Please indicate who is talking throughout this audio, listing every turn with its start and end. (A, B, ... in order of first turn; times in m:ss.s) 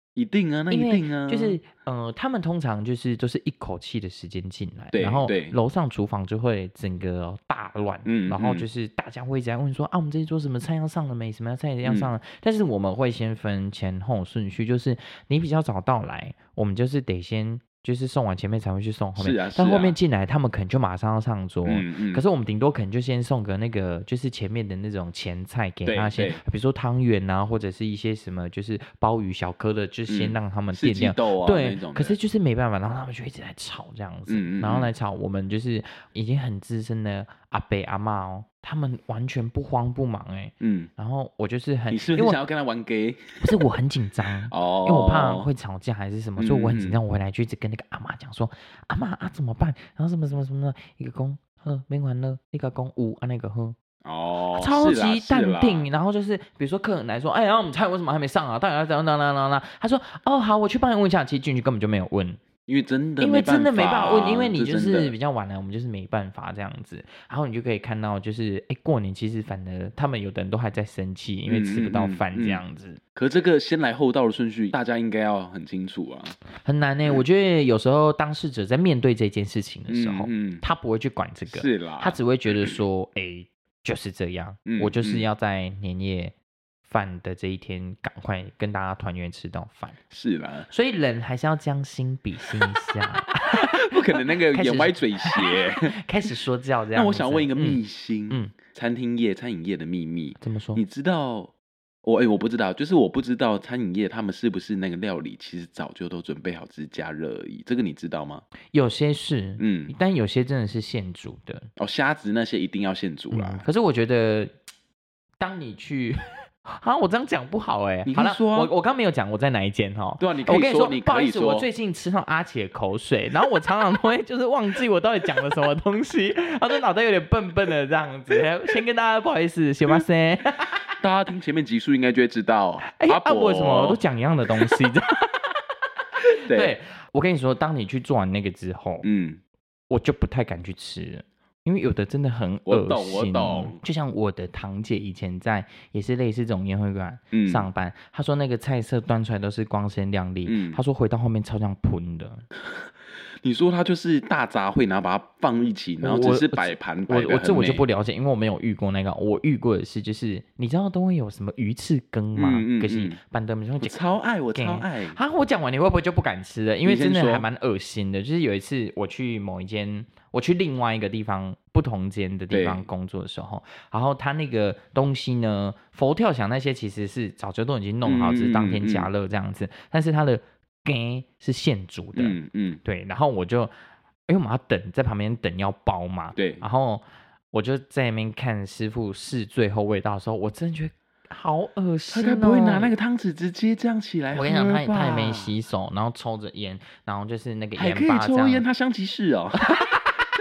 0:00.2-0:01.6 A
0:00.7-0:42.4 B
0:04.9-0:05.6 A
0:08.0-0:08.7 A
0:11.8-0:12.1 A
0:19.2-0:20.0 A
0:21.7-0:22.2 A
0:25.9-0:26.4 A
0:30.1-0:32.2 A
0:34.3-0:34.9 A
0:40.6-0:40.9 A
0:41.9-0:43.4 A
0:43.4-0:53.8 B
0:44.5-0:45.5 A
0:46.4-0:47.0 A
0:54.0-0:55.9 A
0:54.5-1:02.4 B
1:02.7-1:05.1 A
1:03.2-1:13.0 B
1:11.5-1:12.6 A
1:13.2-1:16.4 A
1:16.6-1:26.3 B
1:19.9-1:20.6 A
1:21.5-1:22.8 A
1:24.7-1:25.2 A
1:26.9-1:30.0 B
1:30.1-1:30.7 A
1:30.7-1:38.5 B
1:33.4-1:35.9 A
1:36.9-1:41.5 A
1:40.4-1:40.8 B
1:42.0-1:48.4 A
1:48.7-1:51.7 B
1:49.6-1:49.9 A
1:51.8-1:53.6 A
1:53.3-1:54.5 B
1:55.4-2:10.8 B
1:58.1-1:58.7 A
2:00.2-2:01.7 A
2:11.0-2:14.0 A
2:12.8-2:15.6 B
2:16.3-2:19.1 B
2:16.5-2:16.7 A
2:19.0-2:19.4 A
2:19.9-2:32.4 B
2:22.7-2:23.8 A
2:27.3-2:27.7 A
2:30.5-2:30.8 A
2:32.6-2:32.9 A
2:33.4-2:37.8 A
2:36.0-2:44.0 B
2:42.4-2:43.2 A
2:43.8-2:45.2 A
2:44.5-3:03.7 B
2:46.8-2:47.5 A
2:52.5-2:52.9 A
2:58.0-2:59.1 A
3:02.2-3:02.8 A
3:04.3-3:12.9 B
3:06.4-3:06.6 A
3:12.1-3:15.5 A
3:14.3-3:18.6 B
3:17.8-3:19.6 A
3:19.6-3:20.1 B